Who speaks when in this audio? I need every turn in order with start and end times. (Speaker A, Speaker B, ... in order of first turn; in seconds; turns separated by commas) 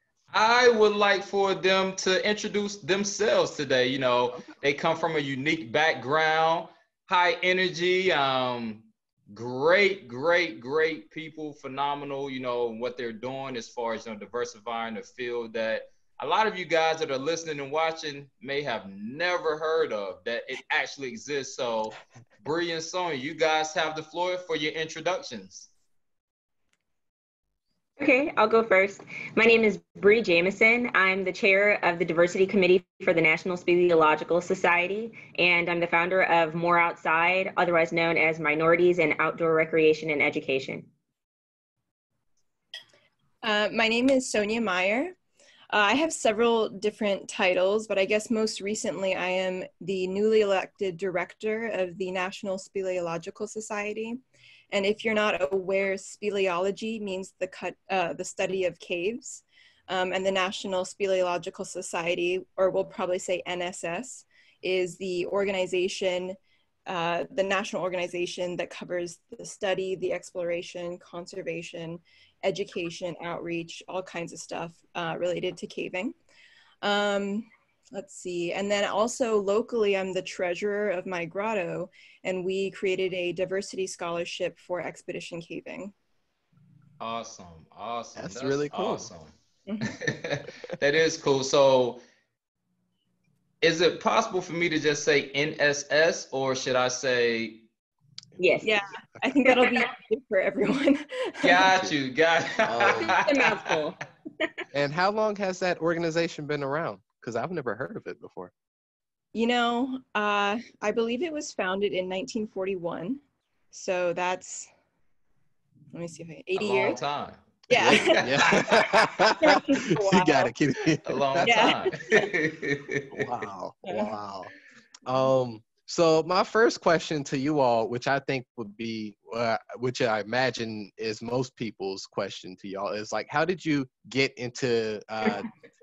Speaker A: 0.3-25.7, Speaker B: 28.0-40.9, Speaker C: 43.4-45.1, Speaker C: 45.7-54.2, Speaker C: 54.7-76.2, Speaker C: 76.8-85.9, Speaker A: 87.0-92.0, Speaker D: 88.2-89.1, Speaker C: 89.7-90.0, Speaker A: 93.6-97.7, Speaker B: 98.4-98.7, Speaker C: 98.6-101.9, Speaker A: 101.4-103.8, Speaker D: 102.6-103.2, Speaker C: 103.1-104.0, Speaker B: 103.3-103.6, Speaker D: 104.7-108.5, Speaker C: 109.3-113.2, Speaker C: 113.7-114.7, Speaker C: 115.9-117.0, Speaker A: 116.6-118.9, Speaker C: 117.7-120.5, Speaker D: 117.8-121.8, Speaker A: 121.0-123.3, Speaker C: 121.4-122.3, Speaker D: 123.1-124.5, Speaker C: 123.9-124.1, Speaker D: 125.0-135.5